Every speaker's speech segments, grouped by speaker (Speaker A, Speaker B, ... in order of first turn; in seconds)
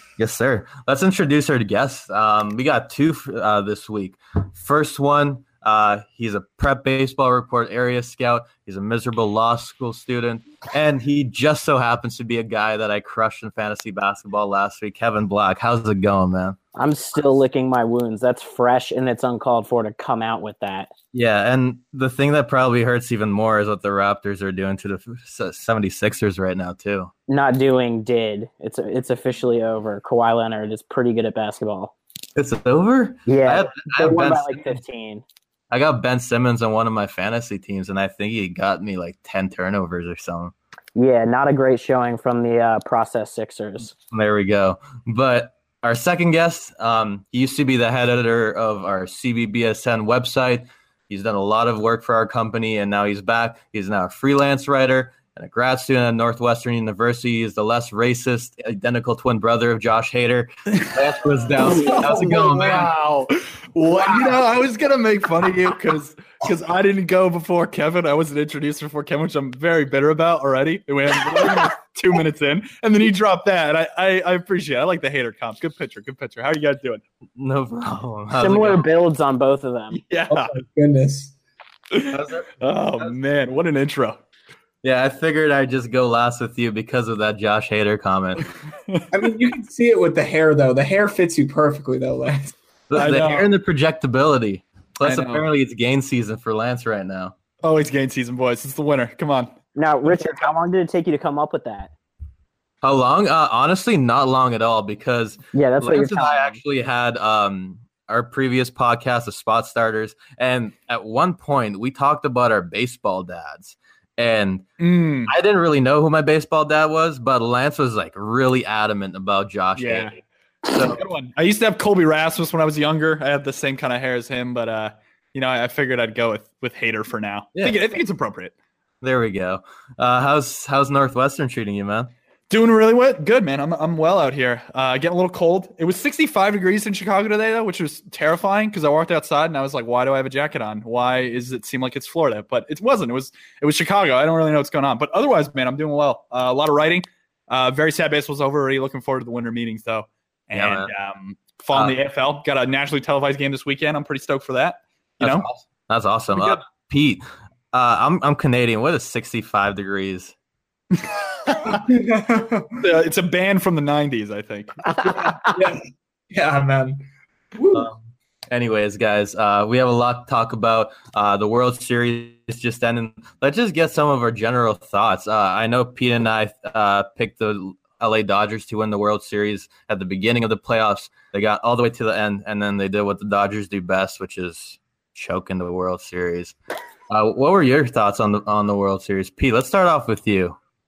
Speaker A: 0.2-16.6, 21.1-27.1, 32.4-34.8, 35.7-40.5, 44.1-62.9, 77.4-78.8, 82.1-83.1, 84.8-88.4, 92.9-97.3, 102.8-114.7, 115.3-121.0, 129.0-132.1, 150.5-150.9, 155.2-160.3, 167.7-168.0, 168.5-186.6, 187.1-190.6
Speaker B: 16.8-20.9, 27.3-31.9, 33.3-35.2, 41.0-43.9, 78.4-80.0, 99.8-101.9, 105.5-106.6
Speaker C: 61.7-63.3, 63.9-64.4, 80.3-81.3, 89.1-93.2, 161.7-162.8, 165.5-167.0, 167.6-167.9
Speaker D: 61.9-62.9, 63.8-77.0, 79.9-80.6, 81.9-84.2, 93.0-93.5, 95.0-95.4, 97.6-99.5, 114.8-115.3, 119.8-120.1, 120.8-128.5, 132.5-155.4, 156.3-156.6, 161.1-161.8, 162.8-164.8